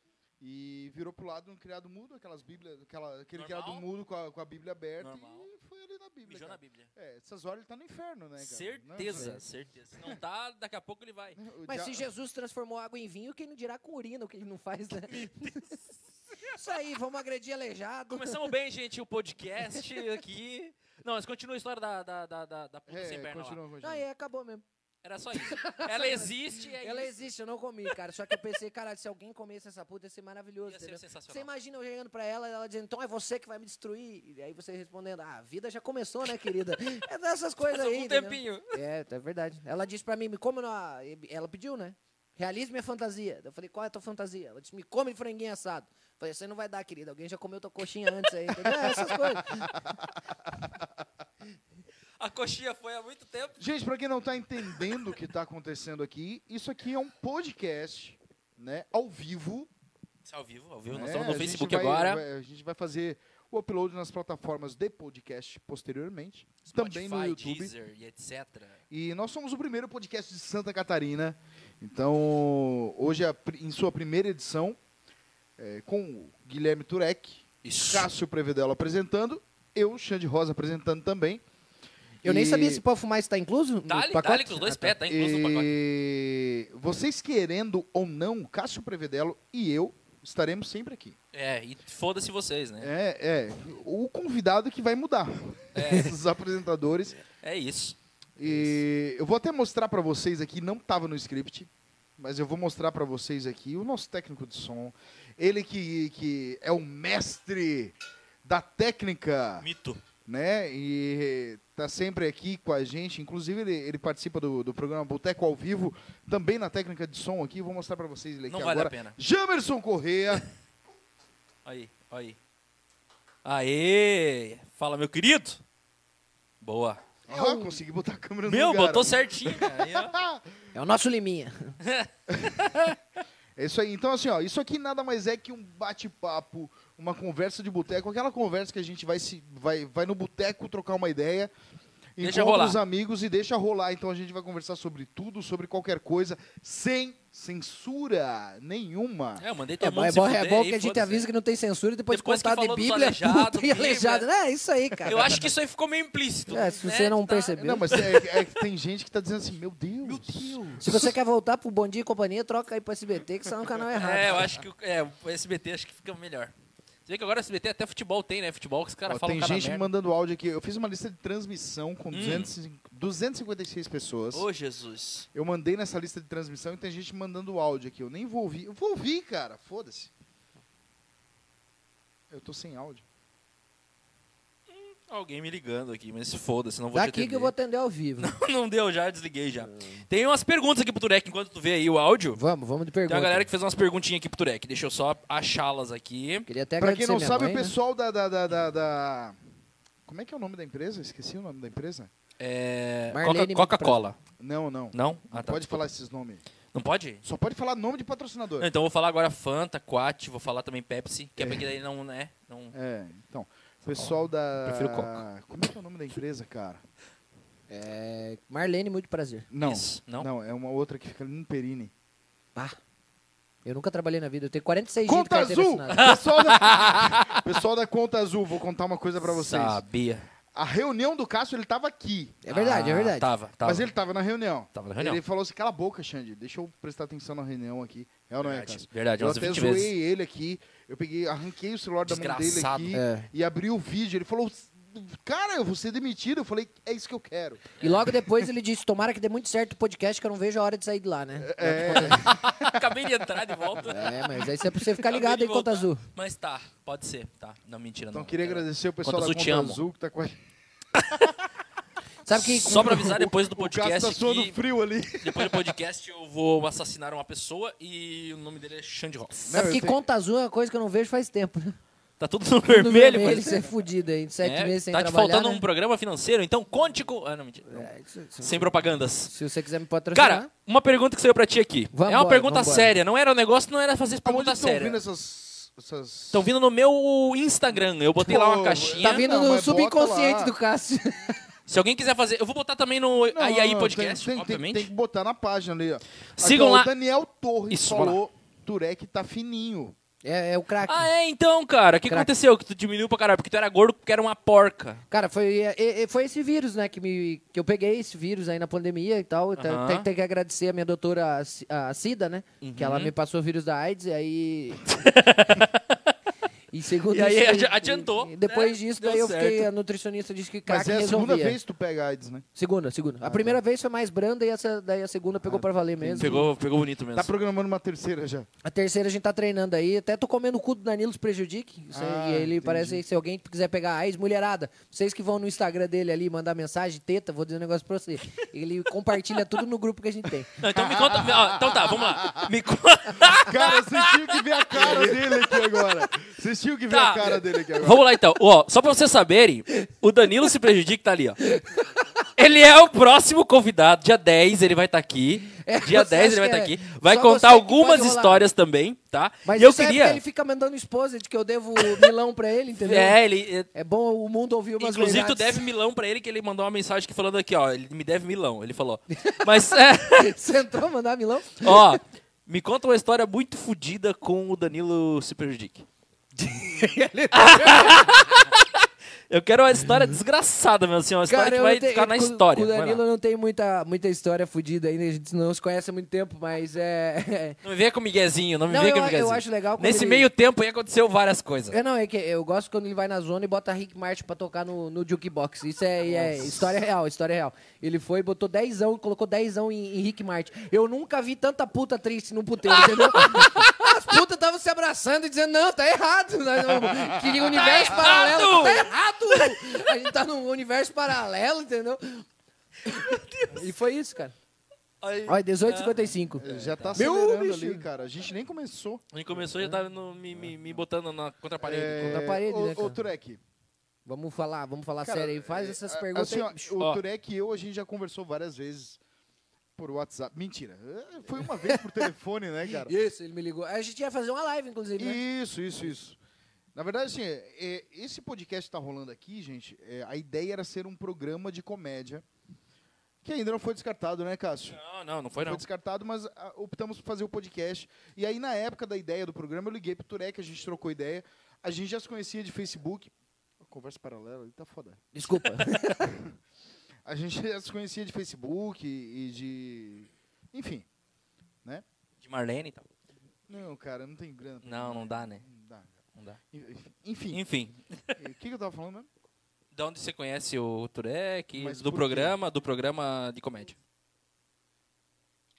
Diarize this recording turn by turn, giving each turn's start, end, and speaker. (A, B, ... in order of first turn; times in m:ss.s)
0:00.4-0:09.4 A
0:03.3-0:03.8 B
0:05.0-0:05.5 B
0:06.2-0:06.9 B
0:08.4-0:11.4 B
0:09.1-0:09.4 C
0:11.4-0:12.1 A
0:11.6-0:15.8 C
0:15.1-0:15.8 B
0:16.4-0:18.5 C
0:18.1-0:23.6 B
0:22.9-0:24.0 A
0:23.8-0:24.6 C
0:25.0-0:27.2 B
0:25.3-0:50.0 C
0:30.6-0:31.5 B
0:37.6-0:38.8 B
0:48.7-0:50.9 A
0:52.2-0:53.6 B
0:53.6-0:59.7 A
1:00.2-1:02.2 B
1:00.9-1:07.7 A
1:06.7-1:08.8 B
1:08.9-1:14.8 A
1:15.6-1:21.4 A
1:17.6-1:18.1 B
1:22.2-1:22.8 A
1:22.2-1:25.0 C
1:23.9-1:25.7 B
1:25.0-1:31.2 A
1:31.3-1:32.9 B
1:32.8-1:37.2 A
1:35.7-1:36.1 B
1:37.4-1:38.8 B
1:38.4-1:49.7 A
1:49.6-1:50.0 B
1:50.2-2:00.4 A
1:58.5-1:59.2 B
2:01.6-2:02.4 B
2:03.4-2:05.6 B
2:06.6-2:07.0 B
2:07.3-2:10.5 A
2:07.3-2:07.8 C
2:08.5-2:10.2 B
2:10.7-2:11.8 C
2:11.8-2:13.0 B
2:12.3-2:12.8 A
2:13.6-2:21.5 A
2:22.2-2:29.4 A
2:22.2-2:22.8 B
2:29.4-2:31.3 B
2:29.8-2:35.4 C
2:32.1-2:34.2 B
2:35.0-2:38.3 B
2:36.5-2:37.9 C
2:37.5-2:41.1 A
2:40.0-2:40.8 B
2:40.8-2:44.6 C
2:43.9-2:46.5 B
2:47.0-2:49.9 B
2:49.1-2:54.4 A
2:52.1-2:52.5 B
2:54.3-2:55.3 B
2:55.3-3:00.1 A
3:02.3-3:03.0 A
3:04.7-3:07.5 B
3:06.9-3:08.3 C
3:08.2-3:12.4 B
3:09.7-3:10.0 C
3:12.4-3:13.5 C
3:13.1-3:16.5 B
3:16.5-3:17.7 C
3:16.8-3:19.4 A
3:20.0-3:22.1 A
3:22.4-3:24.2 B
3:23.1-3:24.0 C
3:24.4-3:26.4 A
3:24.9-3:25.8 B
3:26.7-3:27.2 B
3:27.2-3:28.7 A
3:28.6-3:32.7 B
3:31.4-3:31.7 A
3:32.7-3:36.8 A
3:34.6-3:35.2 B
3:37.7-3:39.5 C
3:39.5-3:41.9 A
3:39.6-3:40.3 B
3:43.6-3:46.1 C
3:45.1-3:49.8 A
3:45.9-3:47.4 B
3:49.2-3:50.3 B
3:50.5-3:52.4 A
3:52.4-3:53.3 C
3:52.5-3:53.9 B
3:53.6-4:08.5 A
3:54.7-3:55.2 B
3:58.4-3:59.9 B
4:02.0-4:03.0 B
4:02.9-4:03.3 C
4:07.8-4:08.1 B
4:07.8-4:12.3 C
4:11.4-4:13.0 A
4:11.7-4:14.2 B
4:13.8-4:14.4 A
4:13.9-4:16.0 C
4:14.9-4:19.8 B
4:18.1-4:20.4 A
4:21.0-4:21.3 B
4:22.2-4:23.3 C
4:22.3-4:24.6 B
4:22.7-4:25.8 A
4:25.2-4:29.5 B
4:29.5-4:30.0 A
4:29.5-4:31.8 C
4:32.2-4:33.7 B
4:32.7-4:35.6 C
4:34.4-4:37.9 B
4:37.7-4:38.7 C
4:38.4-4:39.3 B
4:39.3-4:40.5 C
4:40.1-4:45.0 B
4:41.9-4:42.9 C
4:44.2-4:46.5 A
4:46.3-4:49.2 B
4:48.2-4:50.5 A
4:49.0-4:51.4 C
4:51.7-4:54.9 B
4:53.3-4:59.9 A
4:56.4-4:56.9 B
4:57.7-4:58.2 B
5:00.2-5:01.1 C
5:00.8-5:05.0 B
5:05.1-5:14.9 C
5:09.6-5:10.1 B
5:12.6-5:13.1 B
5:14.8-5:16.0 B
5:16.7-5:21.6 C
5:17.1-5:19.7 B
5:20.7-5:22.4 A
5:22.6-5:26.5 C
5:23.2-5:23.6 A
5:25.4-5:26.5 A
5:26.2-5:27.3 B
5:27.1-5:28.5 A
5:28.6-5:40.5 C
5:31.9-5:33.0 A
5:40.6-5:45.3 B
5:40.7-5:42.5 A
5:43.2-5:48.0 A
5:46.9-5:51.4 B
5:51.4-5:52.0 C
5:52.4-6:00.2 B
5:55.6-5:58.5 C
5:59.4-6:03.2 C
6:01.8-6:02.1 B
6:02.7-6:03.7 B
6:03.7-6:05.6 C
6:04.8-6:10.4 B
6:09.2-6:09.5 C
6:10.1-6:12.0 C
6:11.6-6:15.8 B
6:16.4-6:18.5 C
6:17.3-6:23.0 B
6:21.3-6:27.6 C
6:27.6-6:31.8 B
6:28.7-6:30.3 C
6:31.7-6:52.2 C
6:36.1-6:36.6 B
6:42.7-6:43.9 B
6:46.7-6:47.7 A
6:47.4-6:49.6 B
6:52.8-6:54.3 C
6:52.9-6:53.7 B
6:55.0-6:57.0 B
6:55.3-6:56.4 C
6:56.4-6:59.0 A
6:56.9-6:57.8 C
6:59.1-7:02.3 B
7:01.6-7:03.4 A
7:02.0-7:03.0 C
7:04.0-7:06.7 C
7:05.0-7:09.0 A
7:09.8-7:12.9 A
7:11.6-7:12.1 C
7:12.8-7:15.2 C
7:15.0-7:16.2 A
7:16.7-7:22.2 A
7:23.2-7:24.8 A
7:24.7-7:25.6 B
7:25.4-7:35.0 A
7:35.1-7:36.1 C
7:35.3-7:35.7 B
7:37.0-7:40.8 A
7:42.2-7:42.8 B
7:43.5-7:46.0 A
7:44.6-7:45.4 B
7:46.5-7:47.4 A
7:47.3-7:48.2 B
7:48.2-7:49.1 A
7:49.7-7:53.8 B
7:51.6-7:52.4 A